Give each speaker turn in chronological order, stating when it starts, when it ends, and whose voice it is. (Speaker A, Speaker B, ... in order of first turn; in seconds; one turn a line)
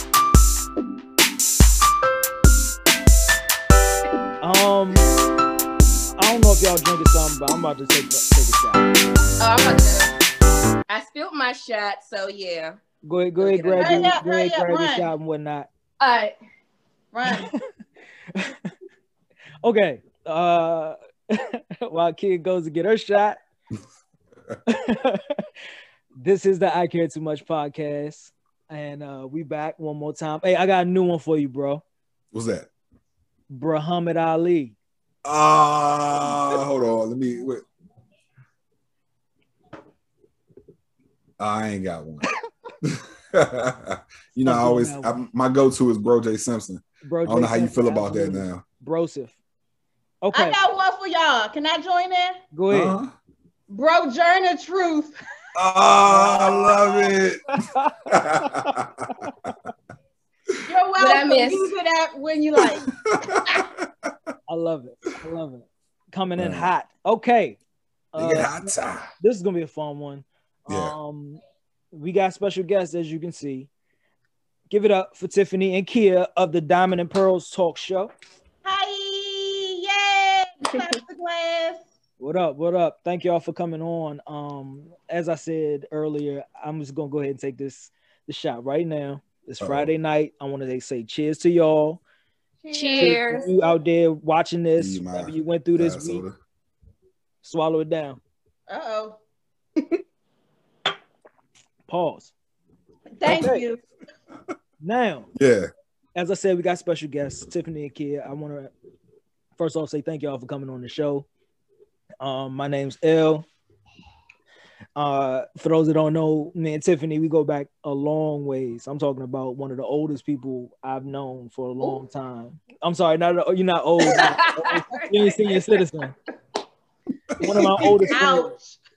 Speaker A: 4.4-5.0
Speaker A: 6.2-8.8
Speaker B: 9.4-10.1
Speaker B: 10.9-12.8
Speaker A: 13.0-15.7
Speaker B: 13.4-14.1
Speaker C: 13.8-15.1
Speaker B: 16.0-16.3
Speaker C: 17.1-17.5
Speaker A: 17.3-17.6
Speaker A: 18.3-18.7
Speaker A: 19.6-23.4
Speaker A: 24.6-25.4
Speaker A: 26.2-31.8
Speaker D: 32.3-32.7
Speaker A: 33.5-34.8
Speaker D: 35.2-37.6
Speaker D: 41.4-42.3
Speaker D: 42.8-48.6
Speaker A: 44.4-45.1
Speaker A: 47.0-49.3
Speaker A: 50.2-50.6
Speaker C: 50.3-52.4
Speaker A: 52.5-53.0
Speaker D: 52.7-53.1
Speaker C: 53.7-55.1
Speaker D: 55.5-59.5
Speaker A: 56.0-59.3
Speaker C: 60.6-62.9
Speaker B: 61.0-61.7
Speaker D: 62.6-64.1
Speaker A: 64.5-67.6
Speaker D: 66.3-66.7
Speaker A: 68.1-71.4
Speaker D: 68.2-69.1
Speaker D: 70.7-70.9
Speaker A: 71.9-73.7
Speaker A: 74.7-78.1
Speaker C: 78.6-81.8
Speaker A: 82.2-92.0
Speaker D: 89.6-89.9
Speaker C: 92.6-93.7
Speaker B: 92.7-93.5
Speaker A: 93.0-96.2
Speaker D: 94.8-96.3
Speaker A: 97.4-98.2
Speaker C: 98.7-99.2
Speaker A: 101.9-102.3
Speaker C: 103.2-103.8
Speaker A: 103.3-103.6
Speaker A: 104.8-105.3
Speaker D: 105.3-105.7
Speaker A: 106.2-108.7
Speaker A: 109.6-111.2
Speaker A: 112.2-113.5
Speaker A: 115.0-126.1
Speaker B: 124.0-125.5
Speaker D: 127.3-128.1
Speaker A: 127.4-128.5
Speaker C: 128.1-128.8